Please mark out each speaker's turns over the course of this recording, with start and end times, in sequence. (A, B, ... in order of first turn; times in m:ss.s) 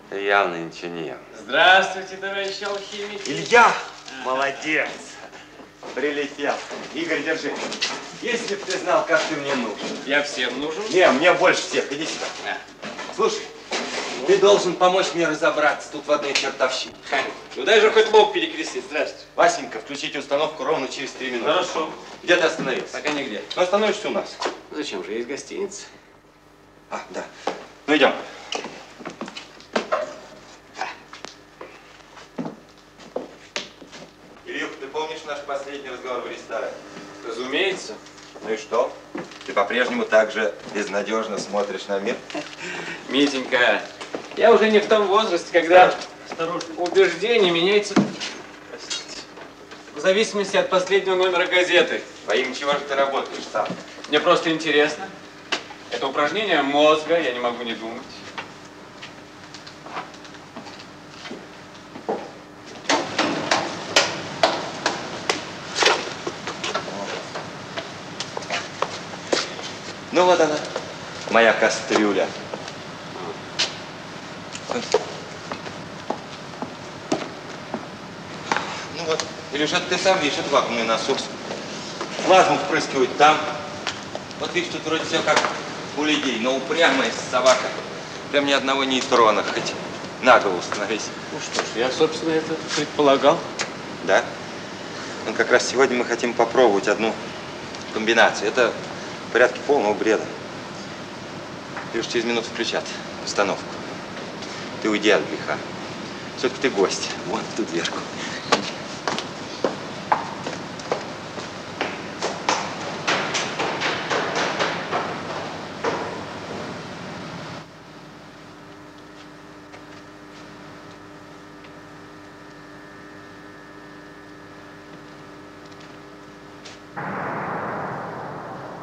0:00.1-0:01.3 A
0:01.3-0:03.5 B
0:03.2-0:05.2 A
0:05.9-0:07.6 A
0:08.2-0:10.0 A
0:10.0-0:10.9 B
0:10.8-0:12.3 A
0:13.1-0:13.5 A
0:14.2-0:17.0 A
0:17.1-0:19.2 B
0:19.3-0:23.0 A
0:21.4-0:21.7 B
0:22.9-0:23.5 B
0:23.5-0:24.4 A
0:24.7-0:25.9 B
0:26.9-0:27.3 A
0:27.8-0:28.2 A
0:34.4-0:36.8 A
0:37.2-0:38.0 B
0:38.4-0:42.2 A
0:43.0-0:48.0 B
0:49.9-0:52.1 B
0:52.2-0:53.7 A
0:54.1-0:55.1 B
0:55.9-0:58.2 B
1:10.1-1:10.7 A
1:11.3-1:12.3 A
1:18.9-1:21.3 A
1:22.2-1:23.6 A
1:24.4-1:27.8 A
1:28.3-1:31.1 A
1:31.3-1:33.4 B
1:34.0-1:34.3 A
1:35.2-1:37.2 A
1:37.9-1:38.8 A
1:39.3-1:40.3 A
1:41.9-1:43.8 A
1:44.8-1:45.6 A
1:46.4-1:48.4 A